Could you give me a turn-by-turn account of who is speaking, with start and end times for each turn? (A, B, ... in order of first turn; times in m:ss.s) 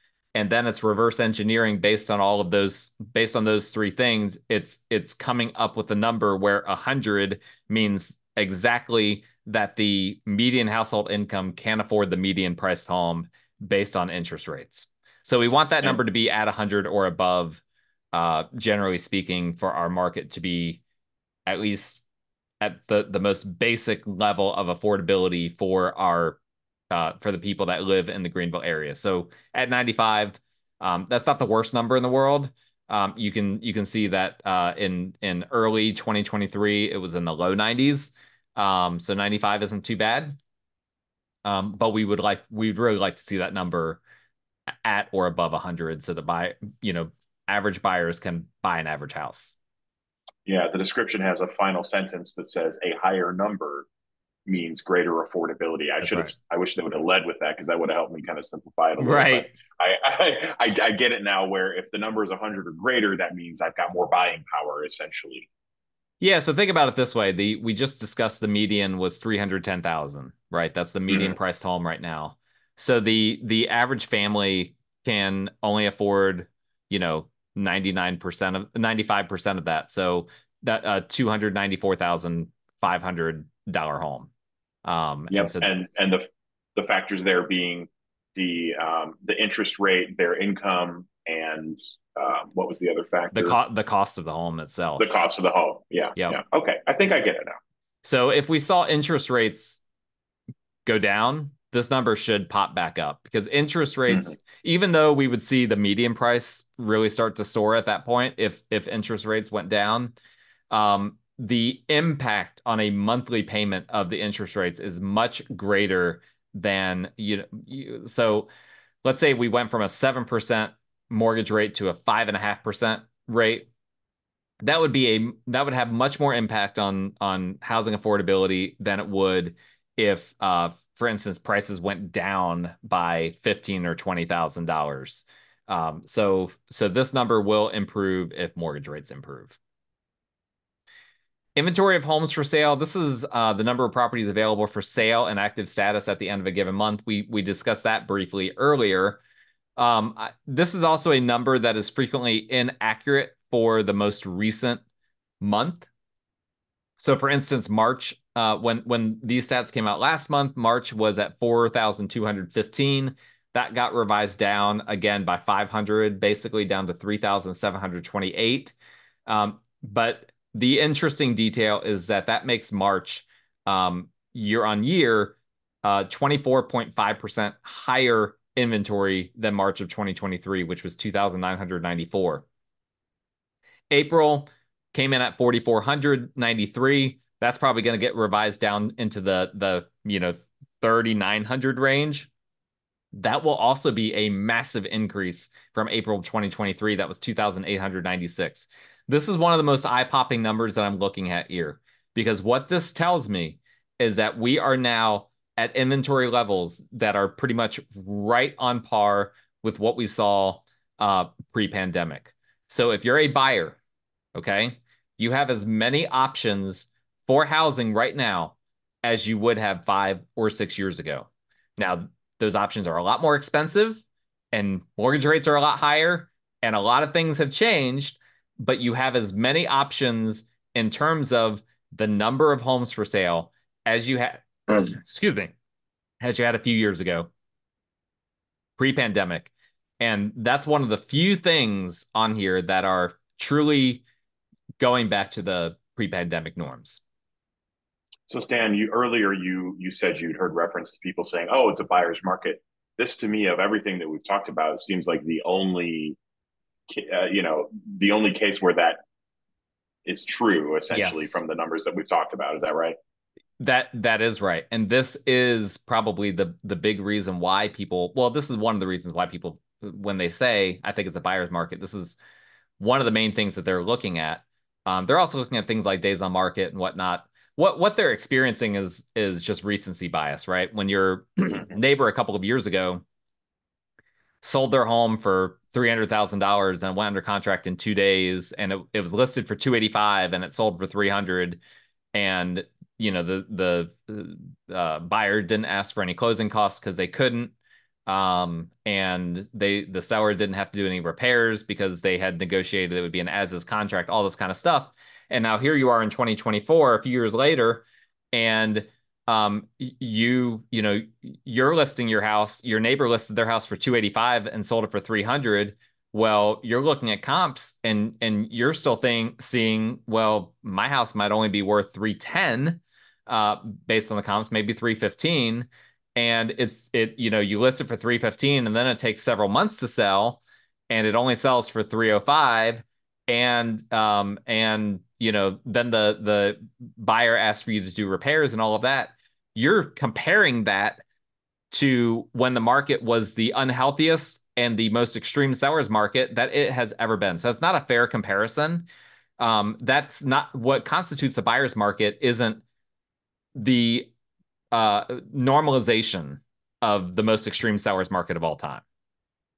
0:00.3-0:17.6 A
0:18.1-0:20.8 A
0:21.4-0:22.0 A
0:22.6-0:26.4 A
0:26.9-0:40.4 A
0:41.4-0:44.0 A
0:44.8-0:49.6 A
0:50.4-0:53.9 B
0:54.4-1:05.5 B
0:56.0-0:56.3 A
0:59.0-0:59.5 A
1:06.2-1:24.3 A
1:11.1-1:11.3 B
1:24.8-1:25.8 A
1:25.3-1:33.6 B
1:33.3-1:35.1 A
1:35.0-1:37.6 B
1:38.0-1:39.8 A
1:40.8-1:50.2 A
1:44.1-1:44.4 B
1:50.7-1:58.5 A
1:59.0-2:03.7 A
2:04.6-2:19.6 A
2:21.6-2:29.2 A
2:29.8-2:34.8 A
2:35.4-2:35.9 A
2:37.0-2:48.7 A
2:49.3-3:02.4 A
3:03.9-3:12.3 A
3:13.1-3:33.8 A
3:34.3-3:55.5 A
3:56.2-3:57.3 A
3:58.8-4:04.0 A
4:04.8-4:07.0 A
4:08.3-4:16.2 B
4:16.9-4:19.0 B
4:20.0-4:23.0 B
4:20.9-4:21.4 A
4:23.6-4:32.2 A
4:32.8-4:43.0 A
4:44.4-4:51.6 A
4:52.1-4:57.5 A
4:58.0-5:41.0 A
5:41.7-5:48.9 A
5:49.4-5:52.6 A
5:53.5-5:54.1 A
5:54.7-5:58.8 A